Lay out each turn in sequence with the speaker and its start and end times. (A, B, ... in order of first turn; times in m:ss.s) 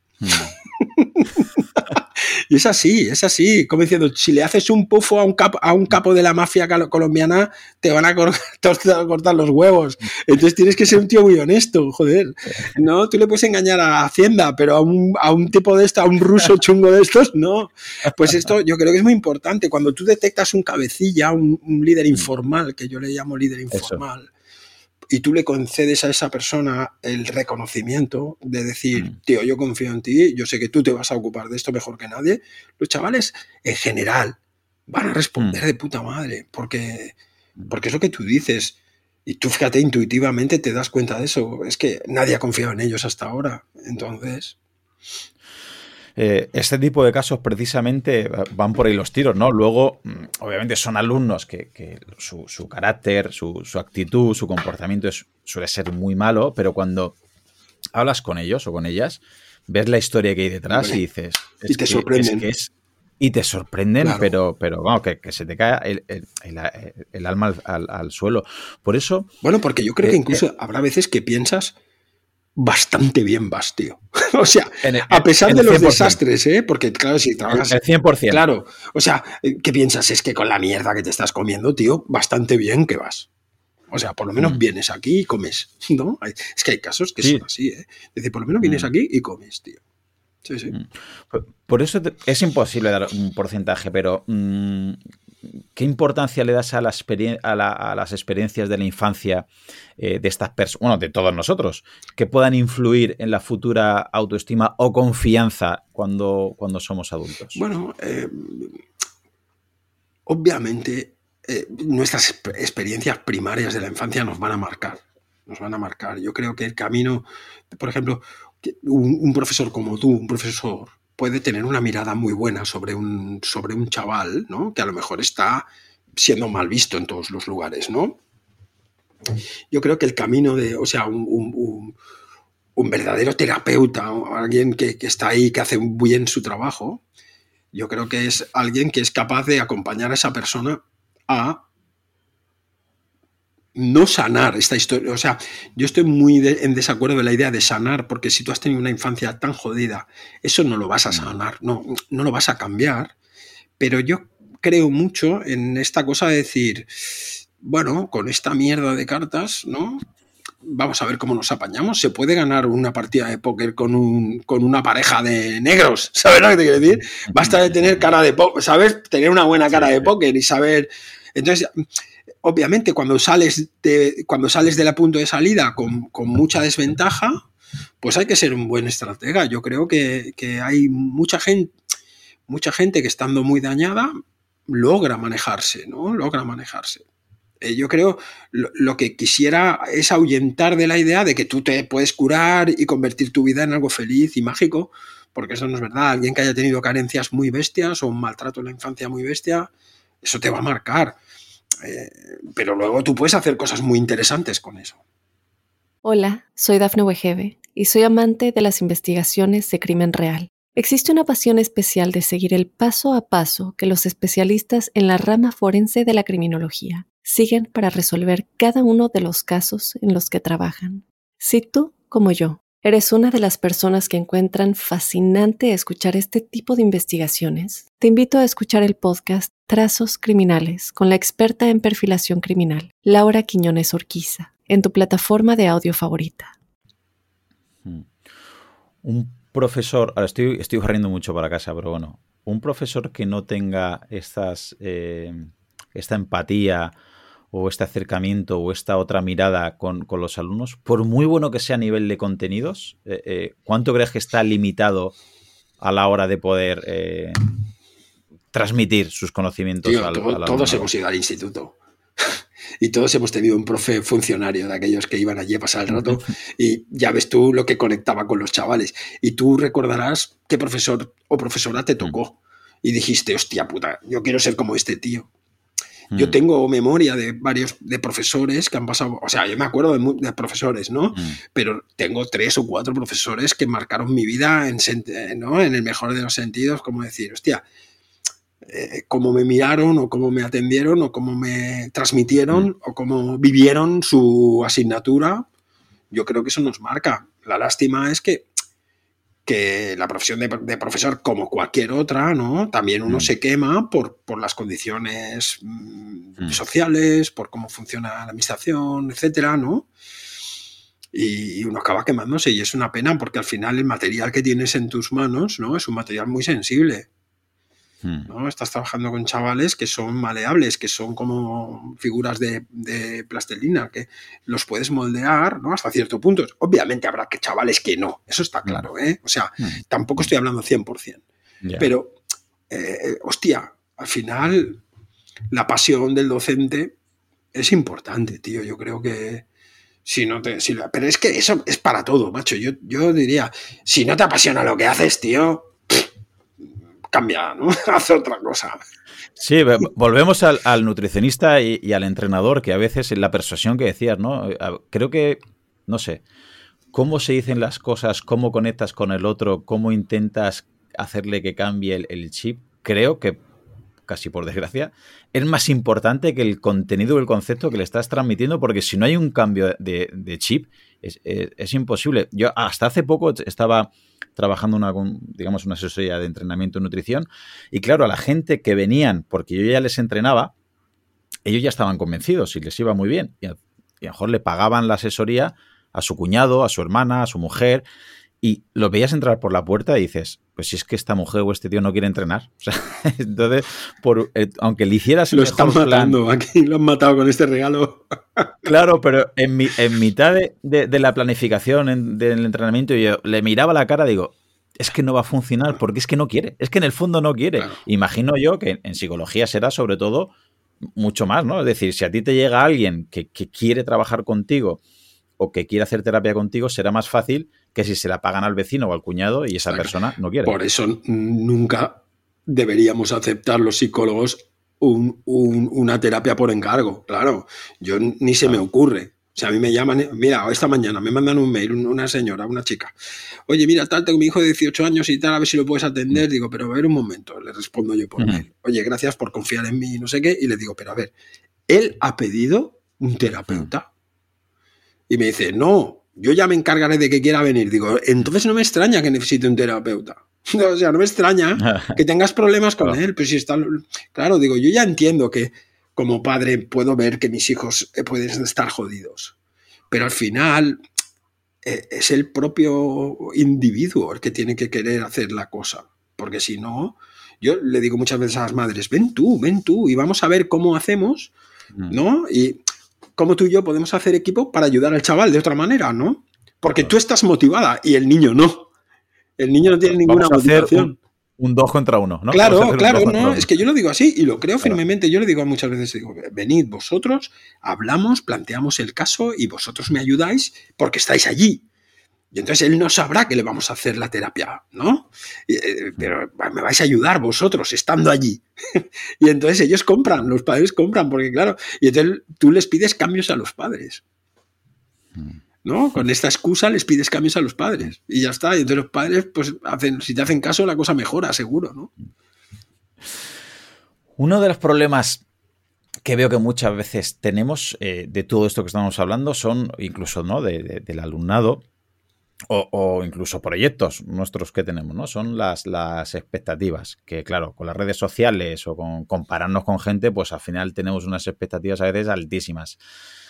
0:00.2-0:00.5 A
0:00.8-0:24.3 B
0:23.7-0:24.0 A
0:25.1-0:34.4 B
0:34.9-0:37.2 B
0:37.7-0:44.6 B
0:46.2-0:57.1 A
0:57.9-1:09.3 A
1:00.7-1:01.0 B
1:01.7-1:02.4 B
1:04.0-1:04.3 B
1:09.4-1:11.7 B
1:10.0-1:10.4 A
1:12.6-1:23.3 B
1:14.8-1:16.2 A
1:17.5-1:18.4 A
1:23.9-1:29.8 B
1:28.6-1:28.9 A
1:30.4-1:30.7 B
1:30.7-1:39.5 A
1:40.0-1:47.6 A
1:47.5-1:48.8 B
1:50.3-2:08.2 B
2:09.7-2:11.9 B
2:12.8-2:17.0 B
2:17.7-2:21.6 B
2:23.7-2:33.1 B
2:33.8-2:40.0 B
2:40.6-2:51.8 B
2:47.3-2:47.6 A
2:49.7-2:50.1 A
2:52.4-2:57.4 B
2:58.0-3:01.7 B
3:02.5-3:04.1 B
3:04.7-3:07.0 B
3:07.6-3:19.7 B
3:20.2-3:21.2 B
3:21.8-3:25.0 B
3:26.0-3:56.5 C
3:57.8-3:58.1 A
3:59.0-4:06.9 A
4:07.5-4:15.1 A
4:15.8-4:17.4 A
4:18.5-4:20.9 A
4:19.8-4:35.3 B
4:36.1-4:36.4 A
4:36.1-4:47.6 B
4:48.6-4:55.5 B
4:56.1-4:58.5 B
4:59.4-5:09.9 B
5:11.1-5:17.1 B
5:18.0-5:18.3 A
5:18.3-5:31.2 B
5:31.6-5:31.9 A
5:31.8-5:32.2 B
5:32.7-5:34.8 B
5:35.5-5:36.9 B
5:37.5-5:39.4 B
5:40.0-5:46.1 B
5:47.1-5:48.8 B
5:49.4-5:56.2 A
5:56.9-6:03.4 A
6:04.0-6:20.5 A
6:21.4-6:27.8 A
6:28.4-6:36.2 A
6:35.3-6:38.6 B
6:38.6-6:50.3 A
6:51.0-6:54.8 A
6:55.4-7:00.5 A
6:59.7-6:59.9 B
7:00.4-7:12.9 B
7:13.5-7:21.1 B
7:18.2-7:18.4 A
7:21.7-7:23.9 B
7:25.1-7:39.3 B
7:31.6-7:32.0 A
7:39.9-7:40.8 B
7:41.6-7:51.3 B
7:51.9-7:52.6 B
7:53.2-7:58.7 B
7:59.4-8:01.0 B
7:59.7-8:03.5 A
8:02.3-8:11.6 B
8:12.3-8:24.0 B
8:25.6-8:31.9 B
8:34.2-8:35.2 A
8:36.0-8:41.6 A
8:42.5-8:52.8 A